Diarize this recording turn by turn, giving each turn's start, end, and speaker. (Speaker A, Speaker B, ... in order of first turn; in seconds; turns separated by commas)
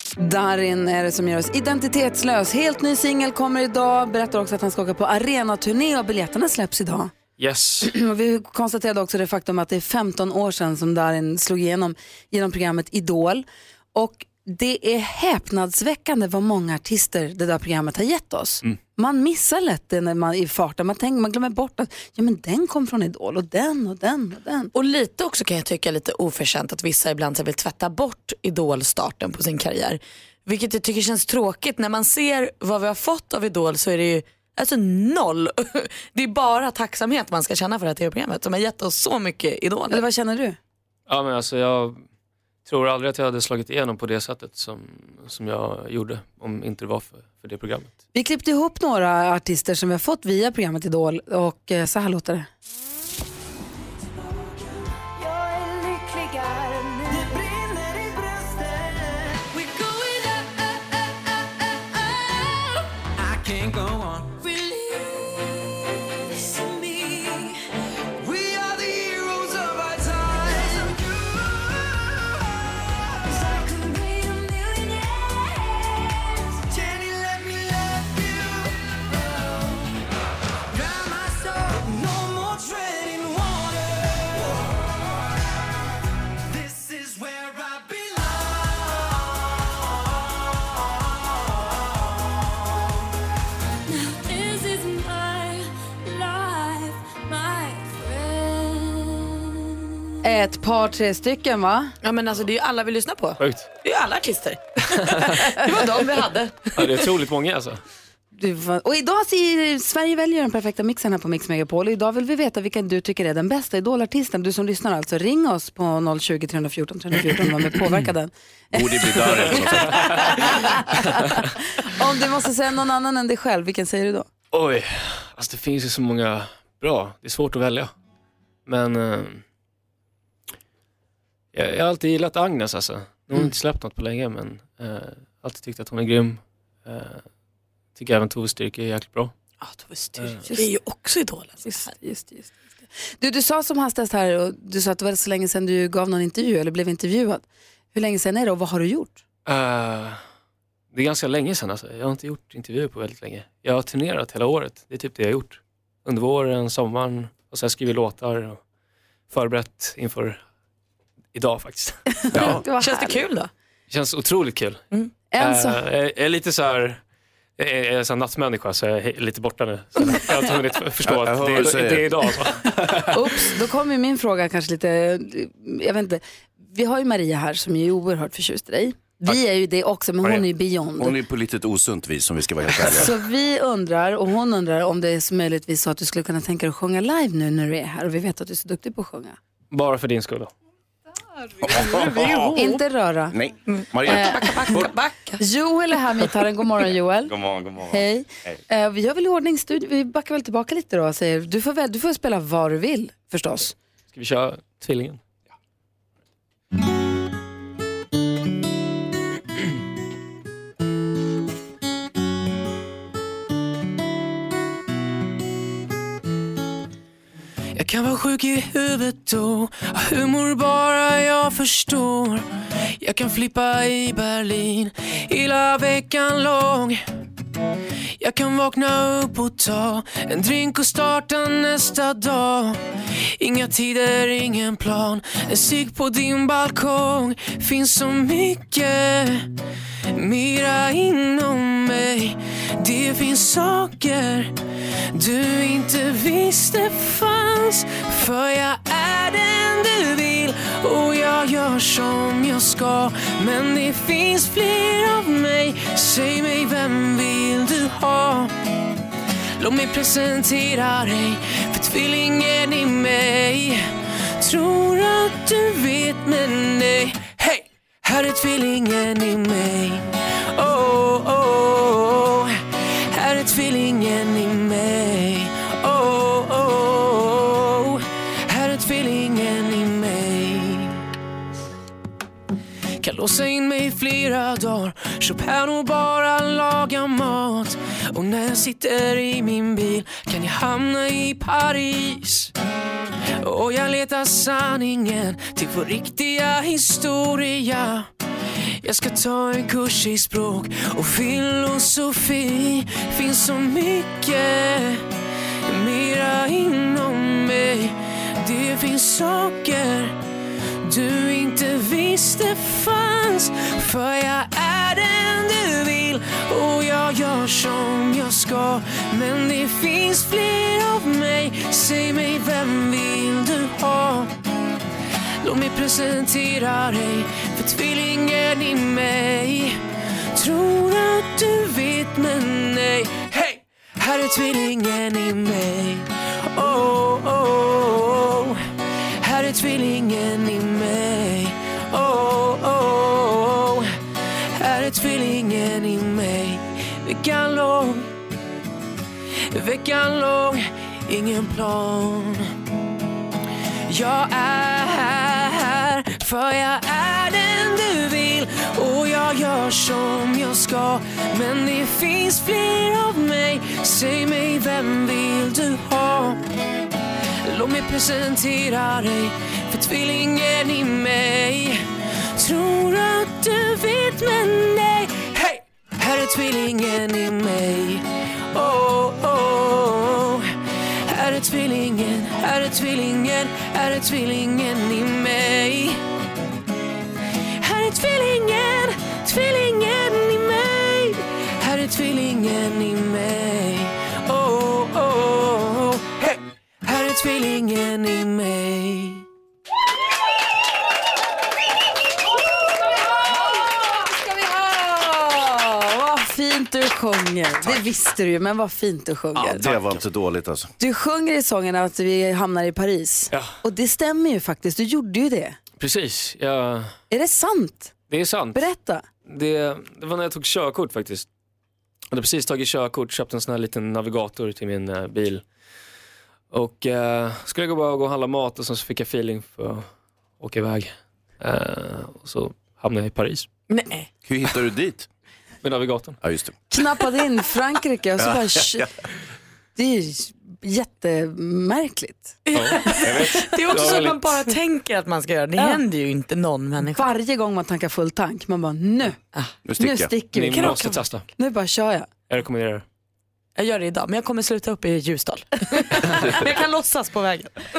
Speaker A: 0.2-7.1, Speaker B: 7.4-7.9, Speaker A: 7.8-24.7, Speaker C: 24.7-40.0, Speaker A: 39.9-40.6, Speaker B: 41.1-42.0, Speaker B: 42.6-47.9, Speaker A: 48.1-52.5, Speaker A: 100.2-101.9, Speaker C: 102.0-104.8, Speaker B: 103.4-103.7, Speaker C: 105.3-107.1, Speaker B: 106.8-107.8, Speaker A: 108.3-119.7, Speaker D: 118.7-120.2, Speaker A: 121.8-124.3, Speaker B: 124.5-127.9, Speaker B: 128.7-129.4, Speaker B: 131.5-137.2, Speaker B: 137.9-139.3, Speaker C: 139.6-141.9, Speaker B: 140.2-140.4, Speaker A: 141.6-142.6, Speaker A: 143.2-149.2, Speaker B: 149.5-150.2, Speaker B: 150.9-158.6, Speaker B: 159.3-160.4, Speaker B: 161.3-162.2, Speaker D: 162.3-162.6, Speaker A: 162.4-163.2, Speaker C: 162.4-163.5, Speaker B: 163.9-164.8, Speaker A: 165.3-165.8, Speaker B: 165.4-167.0, Speaker B: 167.6-172.9, Speaker D: 171.0-172.1, Speaker A: 173.1-181.1, Speaker D: 181.0-183.1, Speaker A: 182.9-189.4, Speaker B: 189.7-190.5, Speaker D: 191.6-192.5, Speaker A: 192.5-193.4, Speaker D: 193.3-194.9, Speaker C: 193.7-195.4, Speaker A: 195.4-203.7, Speaker D: 197.3-197.9, Speaker B: 204.1-205.2, Speaker E: 217.7-222.4, Speaker E: 223.0-227.0, Speaker E: 228.2-232.8, Speaker E: 233.4-239.5, Speaker E: 240.1-244.5, Speaker E: 245.1-258.5, Speaker E: 259.6-281.0, Speaker E: 283.0-292.5, Speaker E: 293.4-298.1, Speaker E: 298.8-305.0, Speaker E: 305.7-310.1, Speaker E: 310.8-324.3, Speaker E: 325.4-329.8, Speaker E: 330.4-338.6, Speaker E: 339.2-343.9, Speaker E: 344.6-348.1, Speaker E: 349.5-352.5, Speaker E: 353.9-366.4, Speaker E: 367.4-380.5, Speaker E: 381.1-386.0, Speaker E: 387.6-399.2, Speaker A: 403.5-409.6, Speaker D: 409.3-410.7, Speaker B: 409.6-409.9, Speaker A: 410.8-415.6, Speaker B: 415.8-416.9, Speaker A: 417.1-417.9, Speaker B: 418.1-418.7, Speaker A: 418.5-419.0, Speaker B: 419.3-421.2, Speaker B: 422.1-425.4, Speaker B: 426.5-429.9, Speaker B: 430.4-433.5, Speaker C: 433.7-434.1, Speaker D: 434.2-435.1, Speaker B: 435.6-436.2, Speaker D: 436.2-436.5, Speaker A: 436.7-438.8, Speaker D: 438.2-438.9, Speaker A: 439.8-442.4, Speaker C: 442.5-447.0, Speaker B: 442.5-444.3, Speaker A: 446.9-449.2, Speaker D: 449.6-450.1, Speaker A: 449.8-450.8, Speaker B: 450.3-451.2, Speaker C: 450.5-451.1, Speaker A: 451.4-452.1, Speaker B: 452.3-452.8, Speaker C: 453.6-457.5